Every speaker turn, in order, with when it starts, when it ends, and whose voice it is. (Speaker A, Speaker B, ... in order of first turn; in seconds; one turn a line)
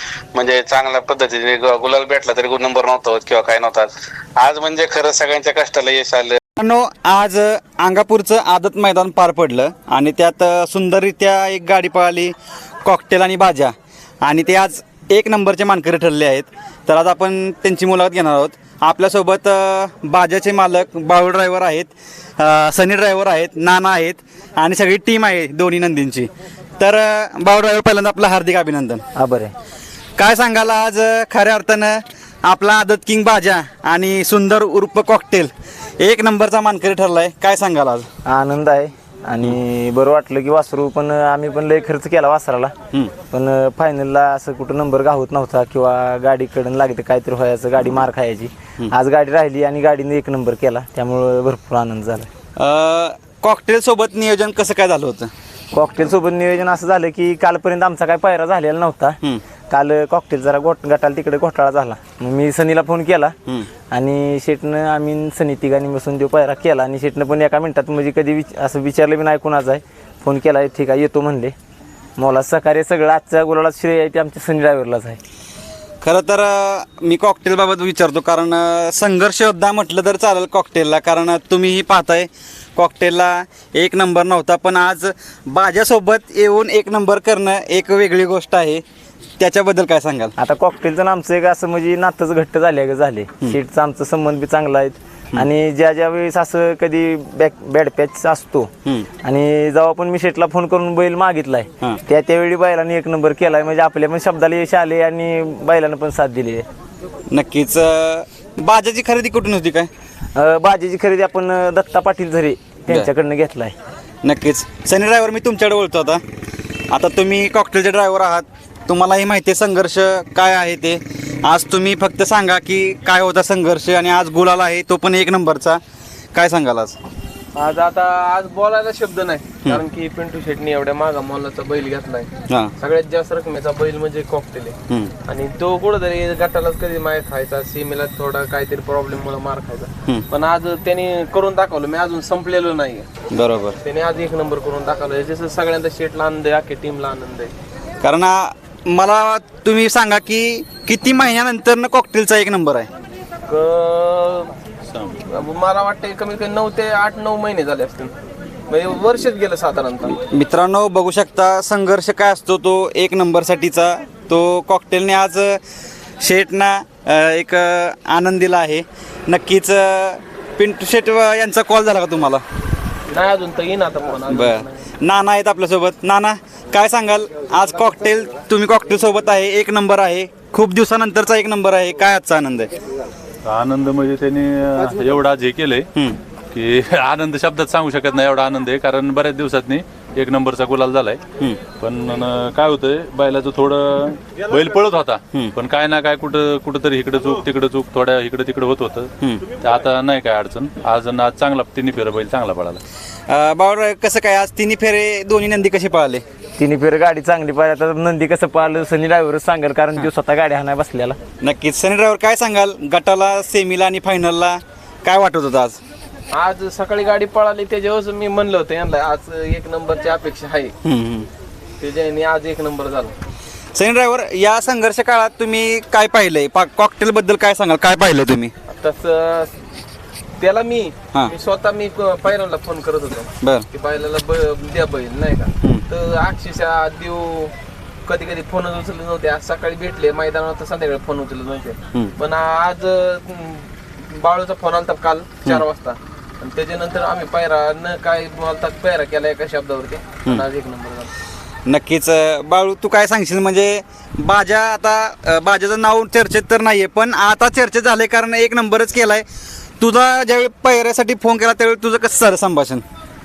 Speaker A: 0.3-3.9
Speaker A: 4.4-6.4
Speaker B: 6.6-29.0
Speaker C: 29.1-29.5
Speaker B: 30.2-38.1
Speaker C: 38.2-42.7
Speaker C: 43.3-52.3
Speaker B: 52.6-55.3
Speaker C: 55.7-59.2
Speaker C: 59.7-63.3
Speaker C: 63.9-71.5
Speaker C: 72.2-75.2
Speaker B: 76.0-88.8
Speaker B: 89.4-90.3
Speaker C: 90.4-98.7
Speaker C: 99.2-106.7
Speaker B: 107.3-109.9
Speaker C: 110.3-113.7
Speaker B: 114.2-116.2
Speaker B: 116.9-125.8
Speaker B: 126.3-127.0
Speaker D: 127.5-143.1
Speaker B: 143.3-143.8
Speaker D: 143.8-147.5
Speaker B: 148.0-152.9
Speaker D: 153.5-154.5
Speaker D: 155.2-158.1
Speaker D: 158.7-160.1
Speaker B: 160.2-165.6
Speaker B: 166.2-172.4
Speaker D: 173.1-174.8
Speaker B: 174.3-182.7
Speaker E: 183.4-185.9
Speaker E: 186.5-191.2
Speaker E: 191.8-202.8
Speaker B: 203.3-206.2
Speaker C: 206.6-211.2
Speaker B: 211.4-215.8
Speaker D: 216.3-220.7
Speaker B: 220.8-221.3
Speaker D: 221.8-223.1
Speaker B: 223.7-228.5
Speaker D: 228.7-229.6
Speaker D: 230.4-237.5
Speaker D: 238.0-251.1
Speaker B: 251.7-259.2
Speaker B: 259.8-262.8